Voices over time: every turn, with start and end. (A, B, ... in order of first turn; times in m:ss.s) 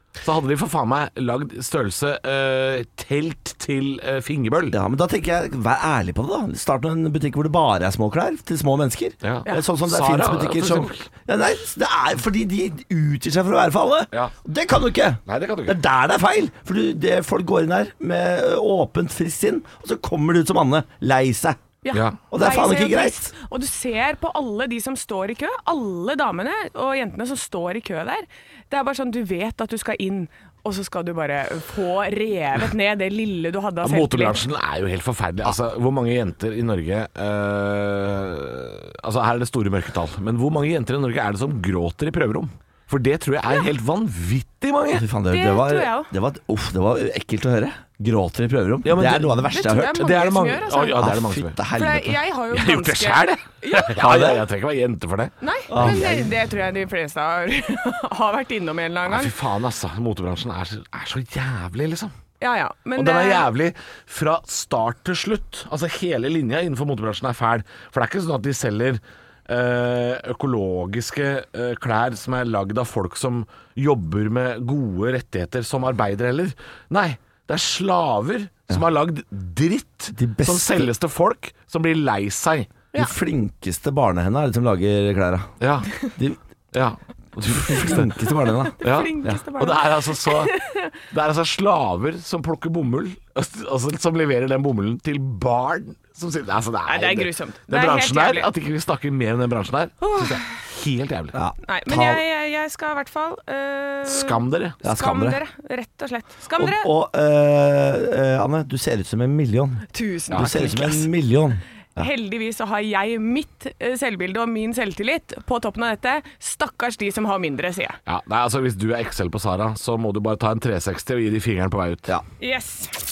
0:00.2-0:04.8 A
0:04.7-0:21.6 B
0:09.2-0:11.0 A
0:15.3-0:15.8 A
0:21.8-0:34.4 C
0:22.3-0:23.3 B
0:33.8-0:45.1 A
0:44.9-0:50.0 B
0:45.3-0:46.1 C
0:48.8-0:51.6 A
0:49.5-0:51.0 C
0:51.0-0:52.2 B
0:51.7-0:54.0 C
0:52.5-0:56.1 A
0:54.0-0:54.4 B
0:55.4-0:59.3 C
0:55.7-0:56.3 B
0:59.0-1:02.1 A
1:02.4-1:03.4 C
1:03.0-1:22.8 A
1:20.1-1:20.9 B
1:22.9-1:25.5 B
1:25.6-1:25.9 A
1:26.7-1:28.2 A
1:27.5-1:29.4 B
1:28.8-1:30.9 C
1:28.8-1:30.5 A
1:31.1-1:41.4 A
1:36.8-1:38.5 C
1:40.0-1:40.4 C
1:41.3-1:42.2 B
1:41.6-1:46.9 C
1:44.0-1:44.8 A
1:44.8-1:45.4 B
1:46.6-1:52.1 B
1:49.9-1:51.1 C
1:52.0-1:58.0 C
1:58.0-2:02.1 A
2:02.4-2:02.9 C